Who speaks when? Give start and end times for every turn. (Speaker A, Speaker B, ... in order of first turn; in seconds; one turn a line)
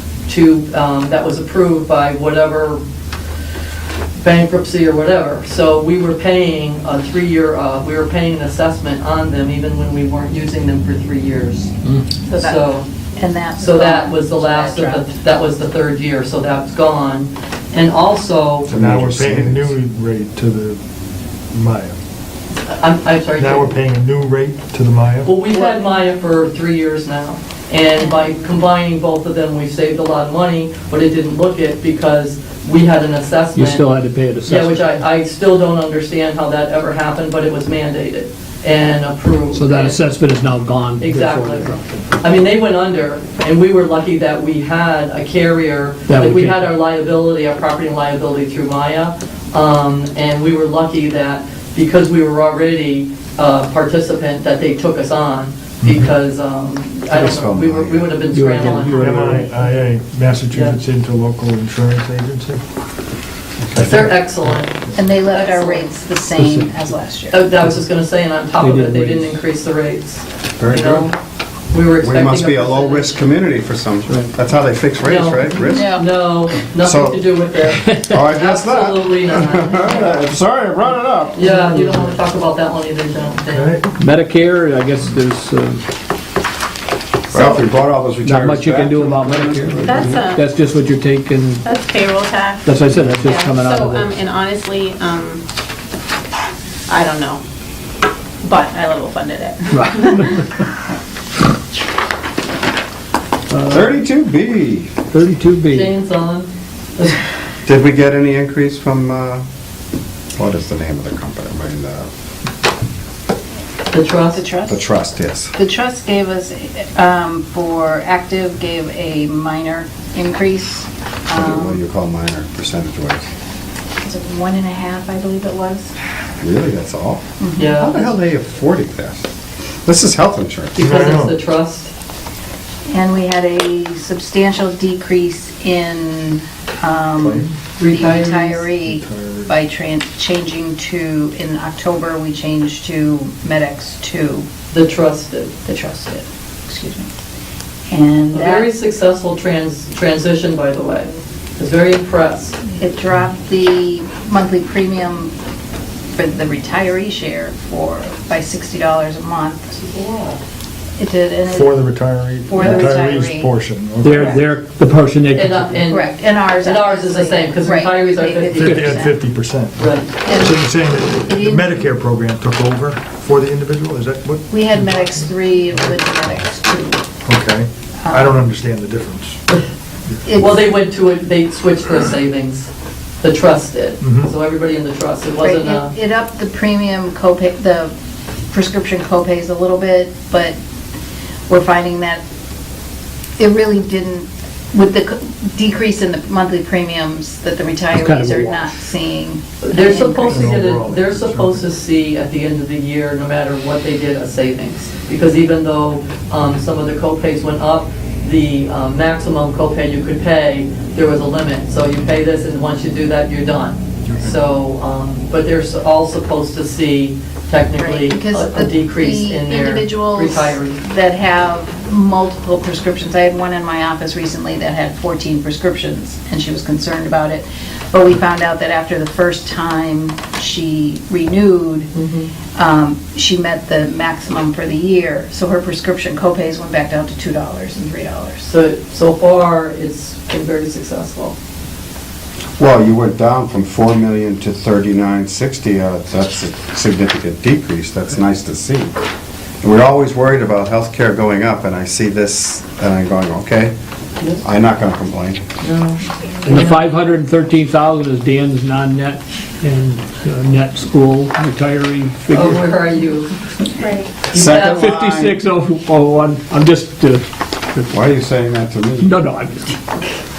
Speaker A: 0.3-2.8
Speaker A: 4.2-11.7
Speaker B: 12.3-15.1
Speaker A: 12.3-12.9
Speaker A: 13.6-18.7
Speaker C: 18.7-20.8
Speaker D: 18.7-19.7
Speaker C: 21.5-22.0
Speaker A: 22.7-23.8
Speaker C: 23.4-25.3
Speaker A: 25.2-33.9
Speaker B: 25.5-25.9
Speaker B: 28.0-28.3
Speaker E: 33.5-34.8
Speaker A: 34.5-40.0
Speaker E: 39.5-42.1
Speaker A: 41.0-59.1
Speaker E: 46.1-46.6
Speaker C: 55.8-56.1
Speaker D: 57.1-58.2
Speaker E: 58.3-59.5
Speaker B: 58.6-59.7
Speaker C: 59.0-62.6
Speaker A: 60.5-60.8
Speaker C: 63.7-64.2
Speaker A: 63.8-65.9
Speaker B: 65.0-67.5
Speaker E: 66.4-66.9
Speaker A: 67.3-71.2
Speaker E: 68.6-69.3
Speaker D: 70.6-71.1
Speaker A: 71.7-73.3
Speaker D: 72.0-75.9
Speaker E: 74.1-74.3
Speaker A: 75.0-80.1
Speaker B: 75.7-76.0
Speaker D: 76.7-77.2
Speaker D: 77.9-81.5
Speaker A: 81.3-83.8
Speaker E: 81.5-82.1
Speaker C: 83.5-83.9
Speaker E: 84.0-85.8
Speaker D: 87.3-90.2
Speaker E: 88.2-91.7
Speaker F: 89.8-90.4
Speaker F: 91.6-95.4
Speaker E: 92.7-94.2
Speaker D: 93.0-93.2
Speaker F: 96.9-97.4
Speaker F: 98.4-100.2
Speaker E: 99.7-100.7
Speaker E: 103.5-104.0
Speaker D: 103.7-105.0
Speaker E: 105.1-105.9
Speaker A: 105.7-107.2
Speaker D: 107.7-109.4
Speaker D: 110.4-112.1
Speaker A: 113.9-114.4
Speaker B: 114.3-114.9
Speaker D: 114.7-115.5
Speaker B: 115.5-121.8
Speaker D: 121.3-123.3
Speaker B: 124.0-126.0
Speaker D: 126.4-127.2
Speaker B: 127.4-127.8
Speaker A: 127.6-128.1
Speaker D: 127.8-129.2
Speaker D: 129.9-130.9
Speaker A: 130.8-131.9
Speaker C: 130.8-131.4
Speaker B: 132.9-144.5
Speaker C: 137.2-137.5
Speaker A: 137.8-138.7
Speaker C: 138.8-139.6
Speaker A: 144.7-145.5
Speaker B: 145.7-147.1
Speaker B: 147.9-148.7
Speaker A: 148.3-152.6
Speaker B: 152.7-155.3
Speaker B: 156.2-159.8
Speaker A: 159.8-160.4
Speaker B: 161.0-161.9
Speaker C: 161.5-164.5
Speaker B: 162.5-163.5
Speaker E: 164.0-165.8
Speaker B: 164.1-164.4
Speaker A: 165.3-169.0
Speaker B: 165.9-169.2
Speaker C: 168.6-175.9
Speaker A: 169.8-170.1
Speaker B: 170.2-171.9
Speaker B: 174.5-177.1
Speaker C: 177.2-179.4
Speaker B: 178.0-178.4
Speaker B: 180.2-180.7
Speaker A: 180.4-182.7
Speaker A: 183.2-185.9
Speaker C: 184.0-184.3
Speaker B: 185.4-187.9
Speaker B: 188.5-190.6
Speaker B: 191.5-192.2
Speaker B: 193.4-200.6
Speaker E: 197.9-198.7
Speaker A: 199.6-220.8
Speaker C: 200.3-201.7
Speaker B: 217.8-231.9
Speaker A: 231.9-232.3
Speaker B: 232.6-238.5
Speaker A: 238.5-241.4
Speaker D: 242.6-249.0
Speaker D: 249.6-253.7
Speaker D: 254.4-255.4
Speaker A: 255.6-256.9
Speaker E: 256.5-262.8
Speaker A: 262.3-263.3
Speaker F: 263.8-264.1
Speaker A: 264.3-264.9
Speaker D: 264.3-265.4
Speaker E: 264.4-267.9
Speaker D: 267.9-269.2
Speaker E: 269.0-269.8